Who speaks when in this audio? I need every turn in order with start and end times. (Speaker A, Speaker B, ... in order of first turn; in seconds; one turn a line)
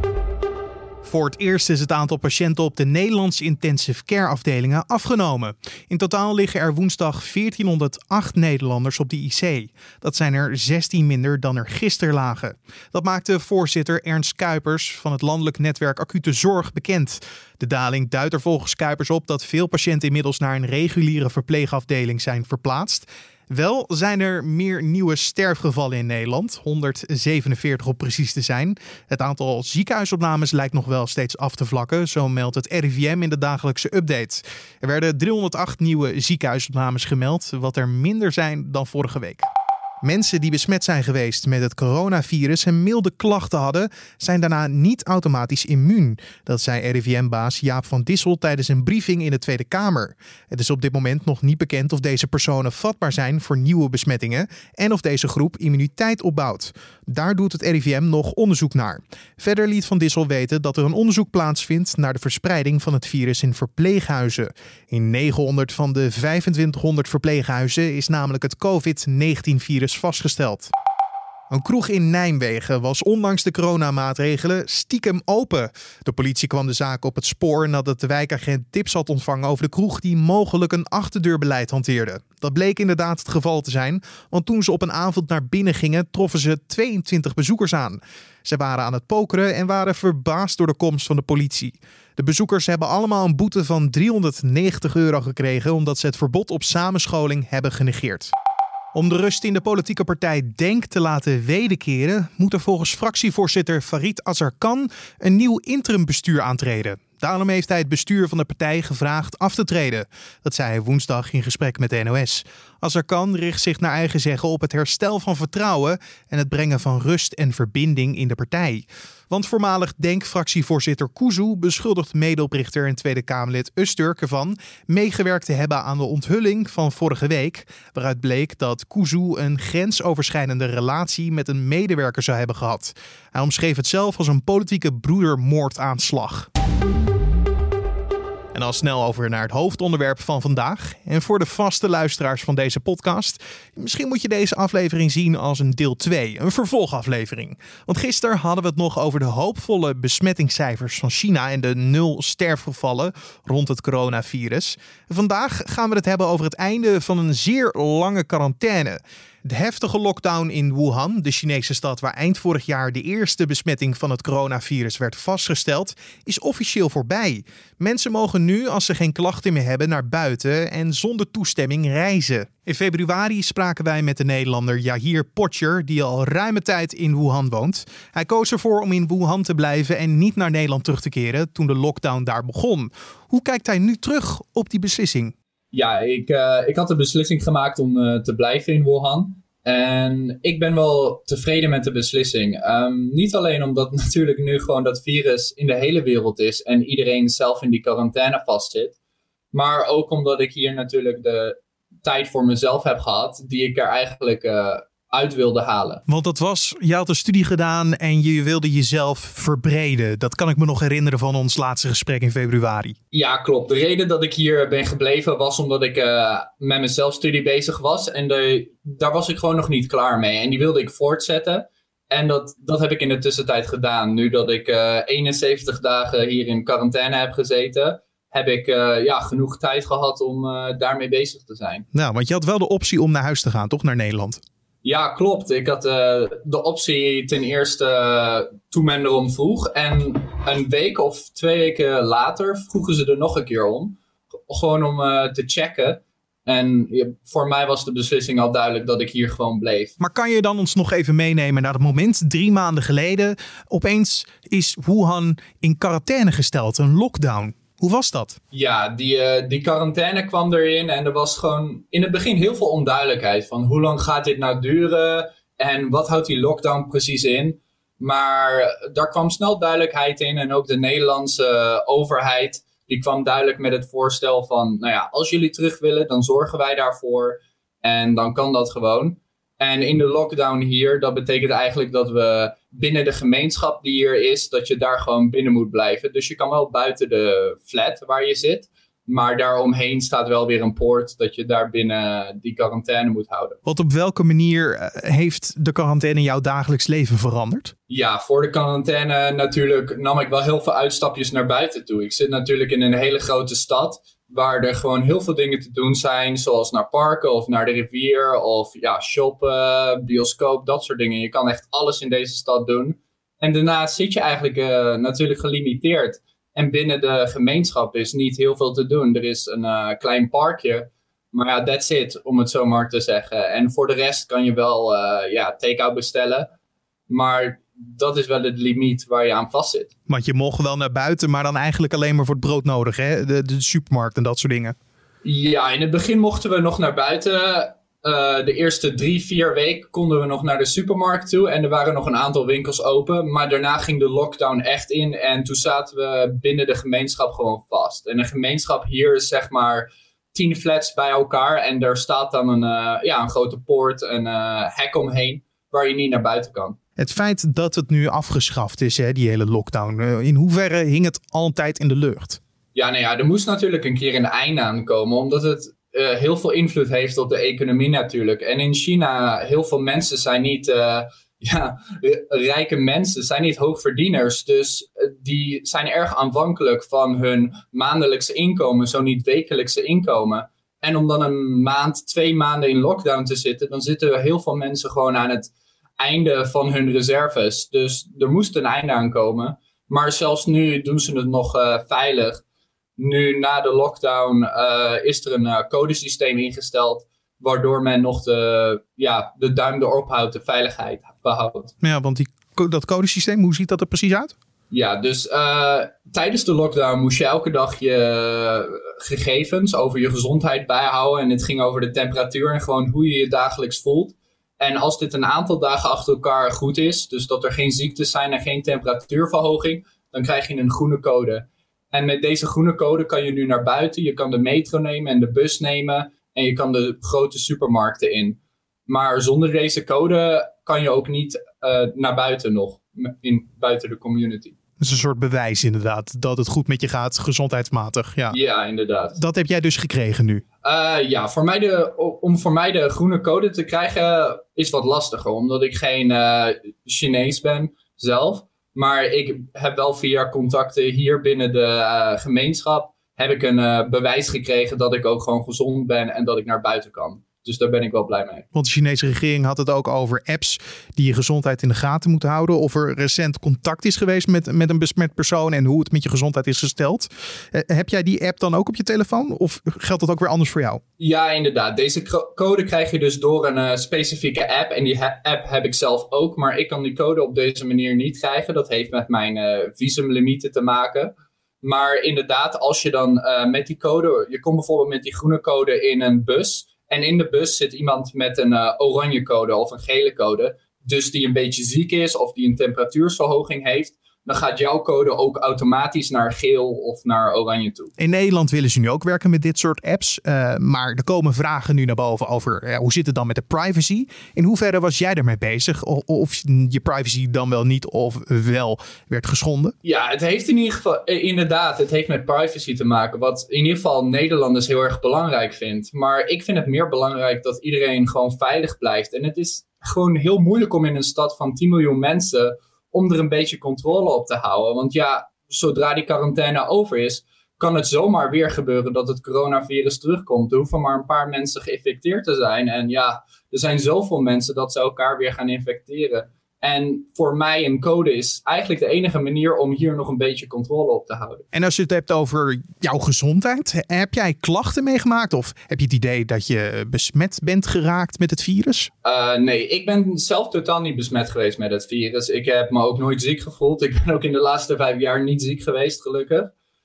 Speaker A: 1.0-39.5
Speaker A: 40.0-70.7
Speaker A: 71.5-98.3
Speaker A: 98.9-136.5
Speaker A: 138.5-185.3
Speaker B: 185.7-198.9
Speaker B: 199.5-206.0
Speaker A: 206.1-212.9
Speaker B: 213.1-231.9
Speaker A: 231.9-234.4
Speaker B: 234.8-244.0
Speaker B: 244.5-249.9
Speaker A: 250.0-258.4
Speaker B: 258.5-293.6
Speaker A: 293.7-297.7
Speaker B: 297.9-326.5
Speaker B: 327.1-329.9
Speaker A: 330.1-334.8
Speaker B: 335.2-356.8
Speaker A: 357.0-362.4
Speaker B: 362.8-392.4
Speaker B: 393.0-401.7
Speaker A: 401.8-404.3
Speaker B: 404.7-434.6
Speaker A: 434.8-438.4
Speaker B: 438.3-439.2
Speaker A: 439.1-440.4
Speaker B: 440.6-458.5
Speaker A: 458.5-470.8
Speaker B: 471.0-497.9
Speaker A: 498.0-509.8
Speaker B: 509.8-541.5
Speaker A: 541.5-548.9
Speaker B: 549.0-556.5